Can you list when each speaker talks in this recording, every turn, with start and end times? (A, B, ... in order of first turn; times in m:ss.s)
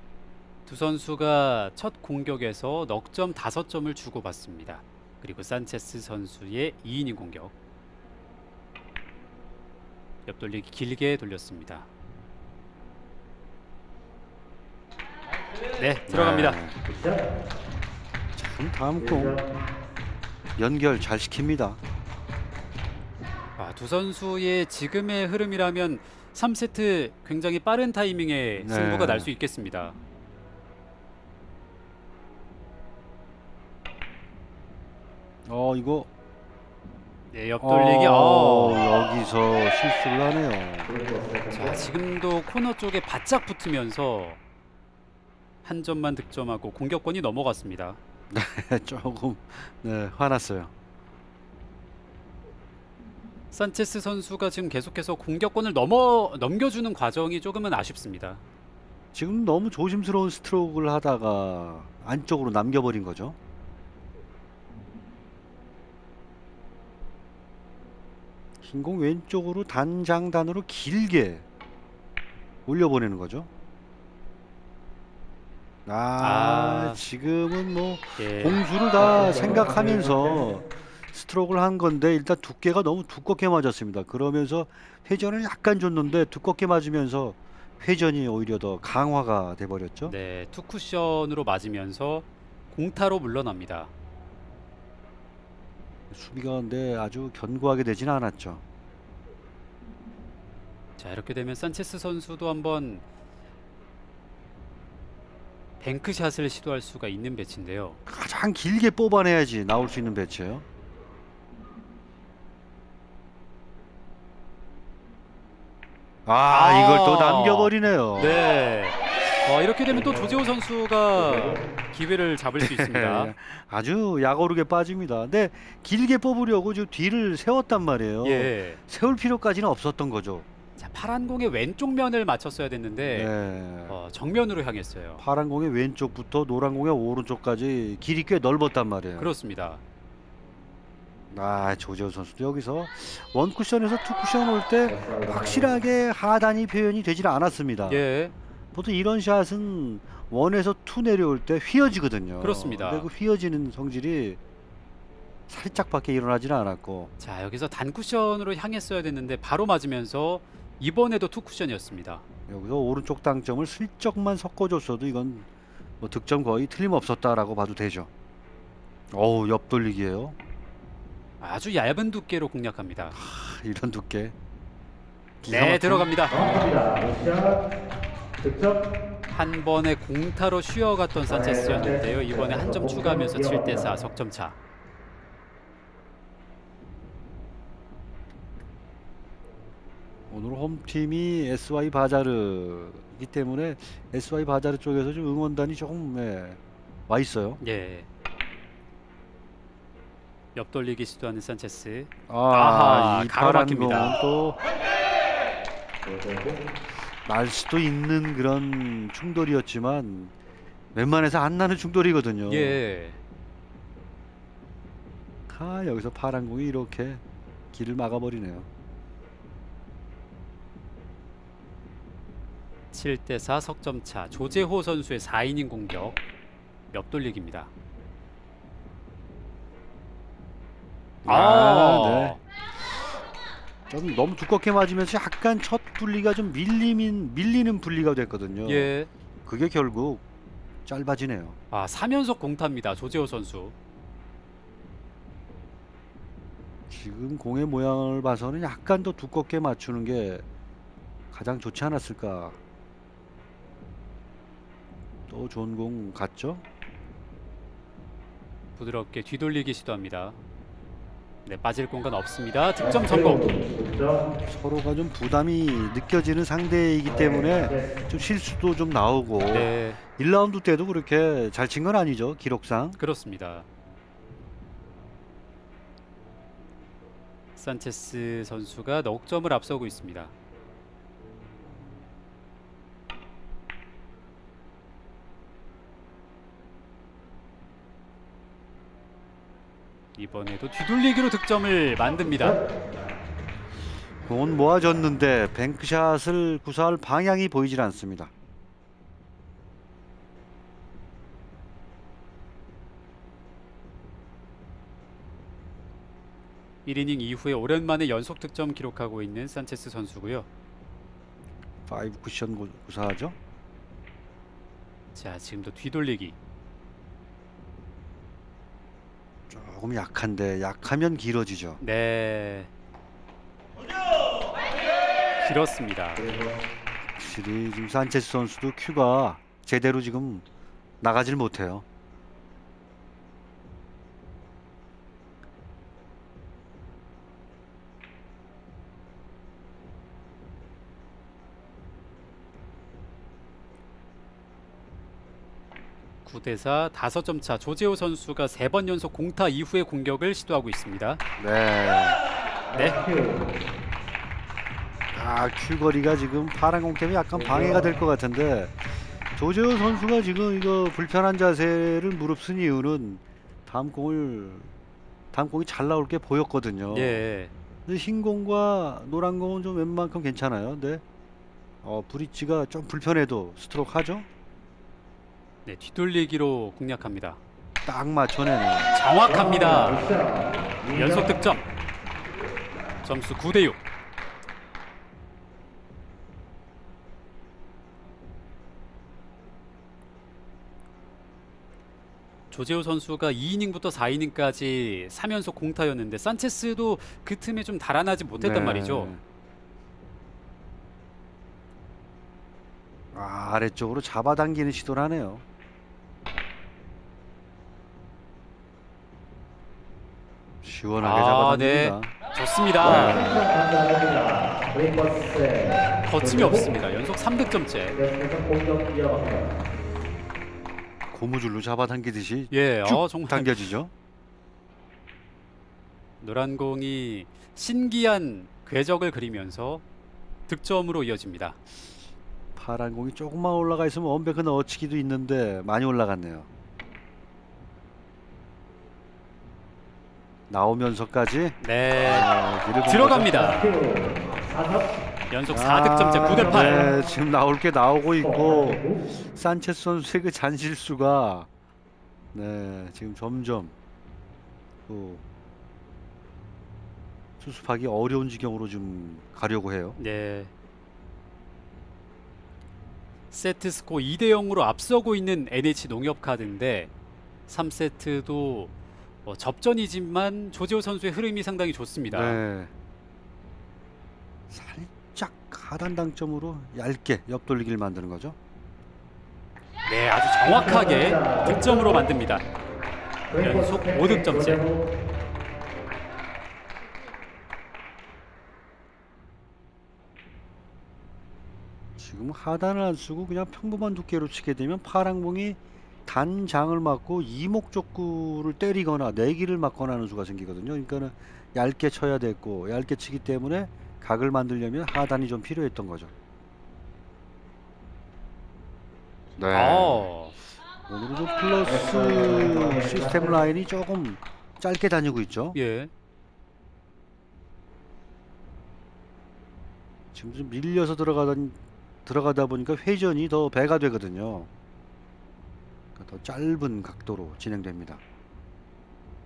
0:00.6-0:07.5 A
0:10.3-0:11.9 A
0:15.8-0:16.6 A
0:16.1-0:16.8 B
0:16.9-0:17.2 C
0:18.3-0:19.4 B
0:20.6-0:21.8 B
0:23.6-0:30.0 A
0:28.6-0:29.3 B
0:35.4-0:36.1 B
0:37.3-0:38.9 A
0:37.6-0:41.0 B
0:41.0-0:41.5 C
0:41.5-0:44.4 A
0:45.6-0:48.0 A
0:48.3-0:50.7 B
0:53.5-0:58.4 A
0:59.1-1:03.4 B
1:08.6-1:11.4 B
1:12.6-1:13.5 B
1:15.8-1:30.1 B
1:16.2-1:17.0 A
1:18.2-1:18.6 A
1:30.0-1:33.9 A
1:36.1-1:38.6 B
1:41.0-1:43.0 A
1:45.8-1:48.0 A
1:48.1-1:50.6 B
1:56.2-1:58.4 B
1:56.4-2:03.3 A
2:02.6-2:10.4 B
2:08.2-2:08.8 A
2:10.8-2:13.3 A
2:13.1-2:14.0 B
2:13.9-2:15.2 A
2:15.2-2:19.3 B
2:19.2-2:19.8 A
2:21.3-2:28.0 B
2:27.8-2:28.3 A
2:28.7-2:34.4 B
2:32.4-2:33.1 A
2:35.5-2:37.1 B
2:37.2-2:42.2 A
2:42.5-2:45.5 B
2:46.0-2:48.1 B
2:49.1-2:50.4 B
2:51.4-2:53.1 A
2:53.1-2:54.3 B
2:55.4-2:56.1 B
2:55.5-2:56.6 A
2:56.4-2:57.6 C
2:58.4-2:58.8 C
2:59.3-3:04.6 A
3:01.3-3:02.1 C
3:03.0-3:03.5 C
3:10.3-3:17.6 B
3:17.6-3:18.1 A
3:20.5-3:24.2 A
3:22.3-3:24.6 B
3:26.0-3:26.6 C
3:27.2-3:30.3 B
3:30.9-3:32.8 B
3:32.4-3:33.2 A
3:35.5-3:37.2 B
3:37.7-3:38.7 B
3:42.9-3:46.2 A
3:46.9-3:47.7 A
3:51.2-3:52.4 B
3:51.2-3:52.4 A
3:53.9-3:58.9 B
3:58.6-3:59.1 A
3:59.4-4:00.2 B
4:00.8-4:01.6 B
4:01.7-4:03.7 A
4:06.9-4:10.4 B
4:11.3-4:12.6 B
4:15.3-4:16.6 B
4:18.8-4:20.4 A
4:21.4-4:23.5 A
4:23.4-4:24.1 C
4:24.3-4:33.0 B
4:29.5-4:30.0 A
4:33.0-4:33.6 A
4:37.6-4:40.3 A
4:50.1-4:52.6 A
4:54.2-4:58.3 B
5:06.8-5:10.5 A
5:11.9-5:13.4 B
5:15.1-5:16.4 A
5:19.5-5:21.8 B
5:21.8-5:22.7 A
5:25.4-5:26.3 A
5:27.2-5:30.4 B
5:31.0-5:31.8 B
5:46.2-5:51.2 A
5:51.4-5:52.2 B
5:52.7-5:53.0 A
5:52.8-5:53.2 C
5:55.1-6:04.7 B
6:05.3-6:07.2 B
6:06.9-6:07.5 A
6:07.9-6:11.0 B
6:11.8-6:14.3 B
6:15.6-6:17.4 A
6:17.8-6:18.9 B
6:18.9-6:20.0 A
6:19.6-6:21.2 C
6:21.1-6:21.6 A
6:23.0-6:23.8 A
6:32.5-6:39.1 A
6:38.4-6:39.2 B
6:43.1-6:45.4 B
6:50.6-6:52.1 B
6:51.0-6:53.3 A
6:52.8-6:53.4 B
6:53.3-6:56.0 C
6:56.0-6:58.0 A
6:58.0-6:59.5 C
7:01.1-7:03.9 B
7:02.5-7:03.7 A
7:06.2-7:09.8 A
7:10.5-7:11.6 A
7:12.6-7:16.5 B
7:20.5-7:23.4 B
7:21.6-7:22.3 A
7:22.8-7:23.8 A
7:23.7-7:24.8 C
7:25.3-7:26.8 A
7:25.5-7:31.5 B
7:32.3-7:33.7 B
7:34.9-7:35.2 B
7:37.4-7:40.0 B
7:40.0-7:40.5 A
7:43.3-7:46.9 A
7:47.5-7:48.7 A
7:49.2-7:52.4 A
7:52.1-7:52.7 B
7:54.5-7:58.4 B
7:59.8-8:02.4 A
8:00.9-8:01.6 C
8:03.3-8:04.7 A
8:04.1-8:04.8 C
8:12.0-8:26.1 B
8:29.4-8:30.1 B
8:29.5-8:30.4 A
8:30.9-8:35.6 B
8:35.5-8:35.9 A
8:40.1-8:44.5 B
8:46.0-8:48.0 B